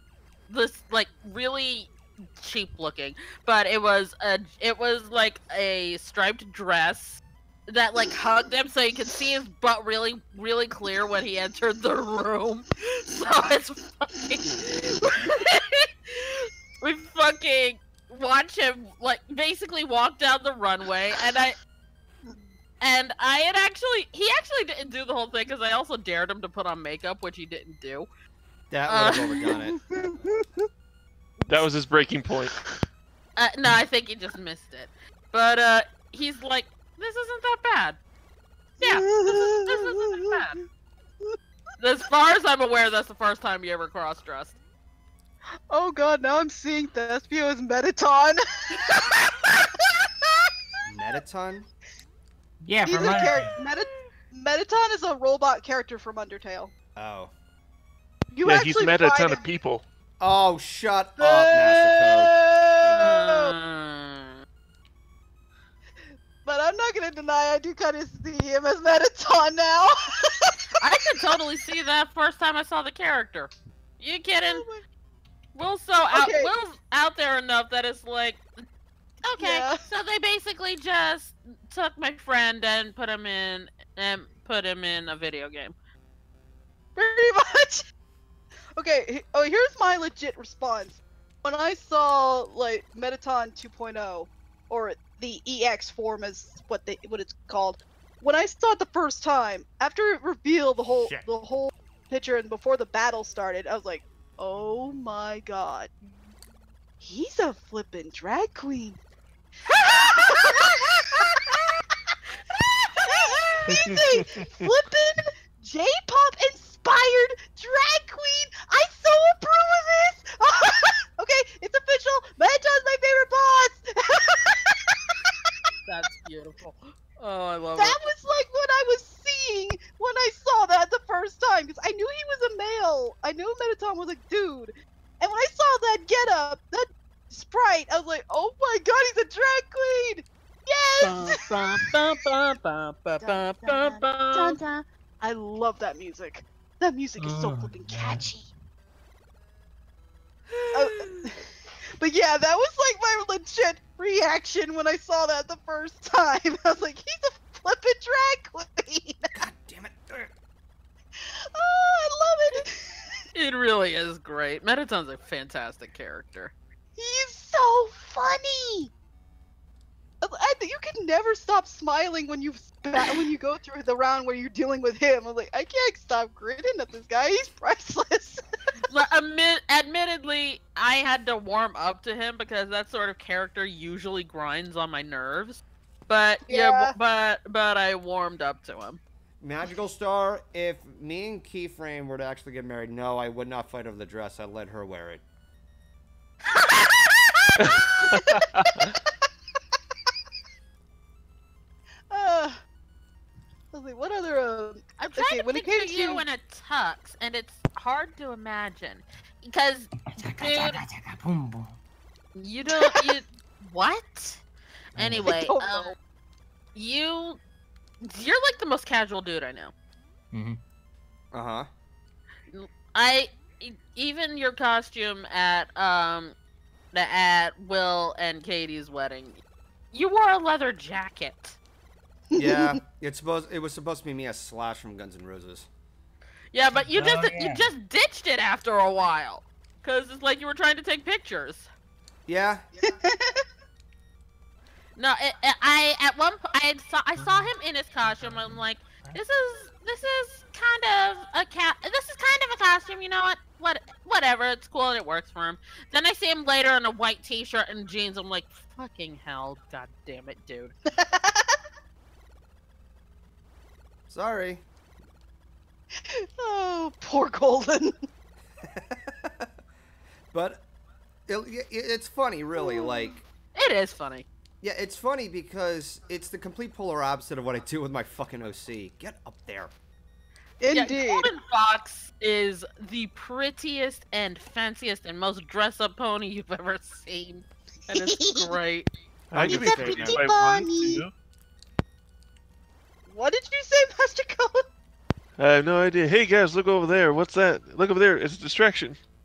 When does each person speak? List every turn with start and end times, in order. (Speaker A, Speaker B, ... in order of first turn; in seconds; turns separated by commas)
Speaker A: 0.5-21.6, Speaker A: 22.8-28.1, Speaker B: 28.7-29.8, Speaker A: 28.9-29.4, Speaker C: 29.5-30.4, Speaker A: 31.4-31.7, Speaker D: 31.5-32.6, Speaker A: 33.4-38.0, Speaker C: 38.8-40.4, Speaker A: 38.8-40.6, Speaker A: 41.8-44.6, Speaker C: 45.7-50.5, Speaker B: 50.9-51.7, Speaker E: 52.6-53.5, Speaker C: 52.9-56.7, Speaker B: 57.0-57.3, Speaker C: 58.3-59.4, Speaker D: 58.4-59.8, Speaker B: 60.2-62.3, Speaker C: 61.2-63.5, Speaker A: 62.9-64.4, Speaker C: 66.4-70.8, Speaker A: 70.8-74.7, Speaker C: 74.4-74.8, Speaker A: 75.5-78.4, Speaker C: 76.1-76.5, Speaker A: 79.2-85.7, Speaker C: 79.4-79.8, Speaker C: 87.0-87.8, Speaker C: 88.8-105.9, Speaker B: 100.9-101.3, Speaker C: 107.0-109.0, Speaker A: 109.7-110.5, Speaker C: 109.8-125.5, Speaker D: 113.8-114.5, Speaker A: 125.8-128.0, Speaker C: 127.8-141.6, Speaker A: 141.0-144.6, Speaker C: 143.2-148.5, Speaker E: 147.2-148.3, Speaker A: 150.5-151.3, Speaker C: 150.7-151.4, Speaker C: 152.0-159.3, Speaker B: 159.3-160.3, Speaker C: 161.2-163.2, Speaker A: 163.3-166.5, Speaker C: 167.0-168.9, Speaker C: 170.2-178.4, Speaker A: 178.9-189.0, Speaker C: 186.5-186.9, Speaker B: 189.4-195.2, Speaker A: 196.7-196.9, Speaker D: 197.6-198.9, Speaker C: 198.0-198.4, Speaker C: 202.1-202.6, Speaker C: 203.7-206.2, Speaker A: 205.0-210.8, Speaker E: 210.1-211.8, Speaker A: 212.3-214.4, Speaker C: 212.7-213.1, Speaker A: 214.9-215.9, Speaker E: 215.0-215.3, Speaker C: 215.1-215.9, Speaker A: 216.8-217.4, Speaker A: 218.0-219.7, Speaker E: 220.3-220.6, Speaker B: 221.3-221.7, Speaker A: 222.5-226.3, Speaker A: 226.9-229.4, Speaker A: 229.9-231.6, Speaker C: 232.3-232.8, Speaker B: 232.4-235.7, Speaker A: 236.5-241.7, Speaker E: 236.8-237.7, Speaker B: 242.3-242.6, Speaker C: 242.8-243.4, Speaker A: 245.0-260.8, Speaker C: 260.9-261.6, Speaker B: 264.1-264.6, Speaker C: 266.1-267.9, Speaker B: 268.6-269.5, Speaker B: 270.3-270.6, Speaker B: 271.3-273.2, Speaker C: 272.6-273.1, Speaker A: 273.6-274.3, Speaker B: 274.6-279.7, Speaker C: 280.6-281.3, Speaker A: 280.7-288.9, Speaker C: 287.9-288.6, Speaker D: 289.3-291.1, Speaker B: 289.4-290.2, Speaker C: 289.4-291.0, Speaker C: 293.1-294.7, Speaker D: 295.4-299.0